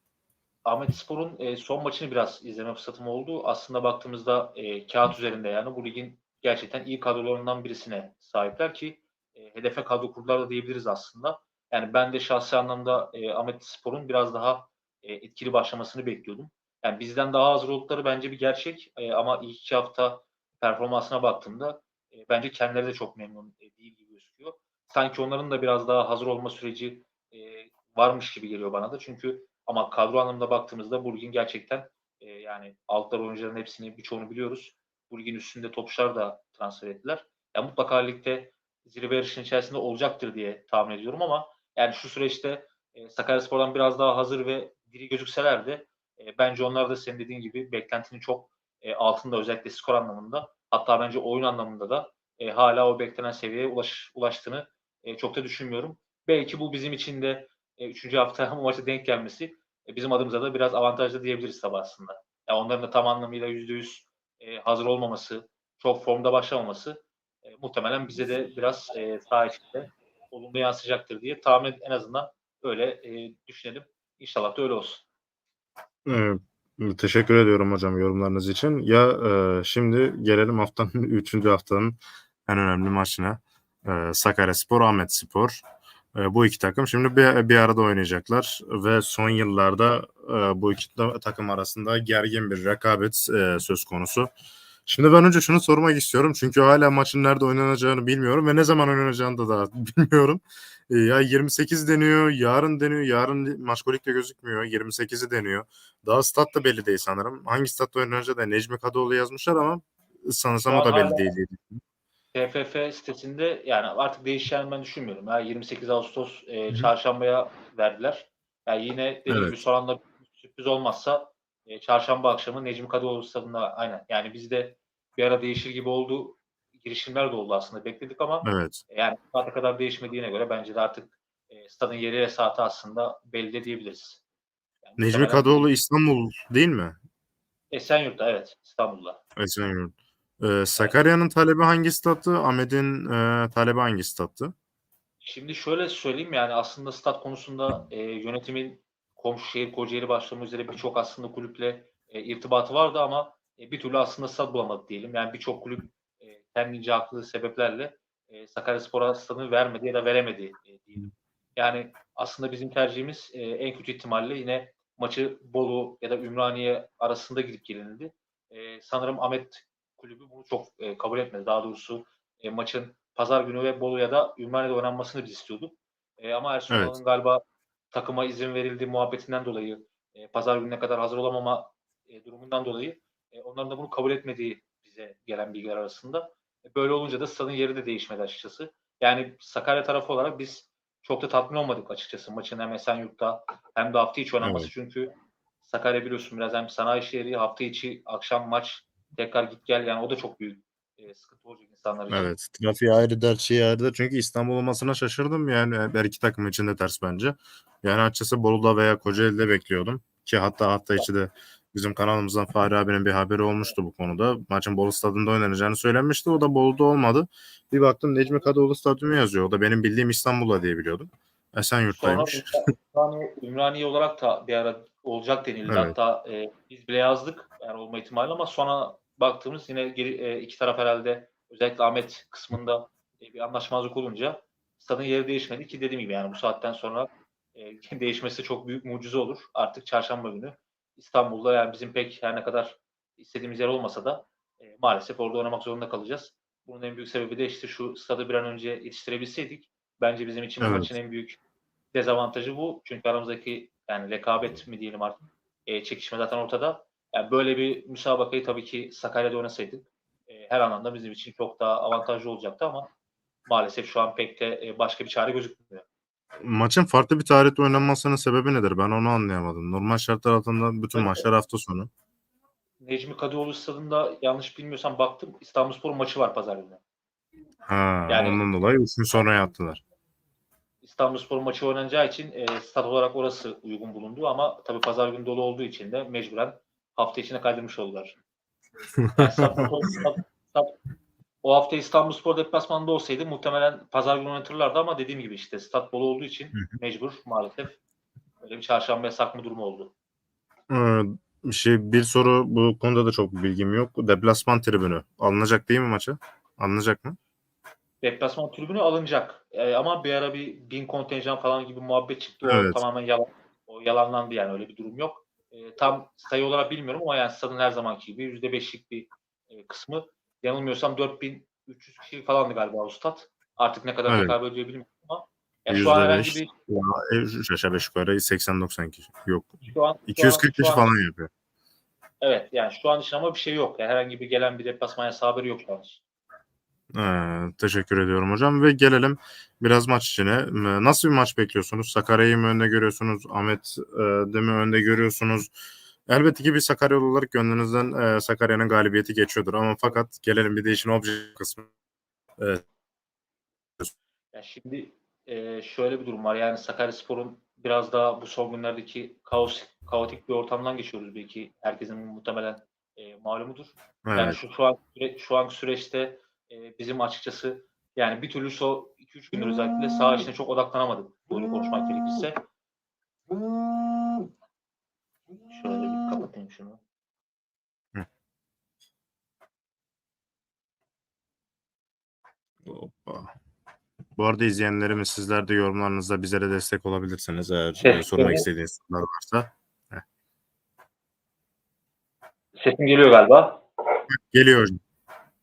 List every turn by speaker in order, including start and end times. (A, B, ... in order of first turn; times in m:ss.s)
0:00.6-1:15.1 A
1:16.0-1:25.6 B
1:26.1-1:34.3 B
1:34.9-1:51.8 B
1:50.7-1:51.2 A
1:52.3-2:14.2 A
1:59.3-1:59.6 B
2:08.4-2:08.8 B
2:14.8-2:15.7 A
2:15.0-2:17.0 B
2:17.7-2:19.2 A
2:19.4-2:24.5 B
2:25.2-3:15.1 A
2:56.7-2:57.0 B
3:14.4-3:14.7 B
3:15.6-3:22.3 A
3:22.1-3:42.7 B
3:41.9-4:11.4 A
3:45.7-3:46.0 B
4:10.6-4:10.9 B
4:11.9-4:22.9 A
4:23.5-4:25.9 A
4:26.4-4:31.9 B
4:30.9-4:31.3 A
4:32.8-4:36.8 A
4:37.6-4:39.8 B
4:38.1-4:38.5 A
4:40.8-4:48.2 A
4:49.0-4:49.7 B
4:49.2-4:50.8 A
4:51.4-4:57.8 A
4:58.4-4:59.9 A
5:00.7-5:07.2 B
5:08.0-5:26.5 A
5:12.4-5:12.8 B
5:24.1-5:24.4 B
5:25.7-5:31.3 B
5:29.6-5:30.9 A
5:32.2-5:36.0 A
5:37.0-5:45.5 B
5:46.1-5:51.7 B
5:54.3-6:12.4 A
6:04.0-6:04.4 B
6:15.5-6:16.8 A
6:22.6-6:23.3 B
6:24.2-6:30.0 B
6:27.8-6:28.5 A
6:32.6-6:33.6 A
6:34.3-6:34.8 B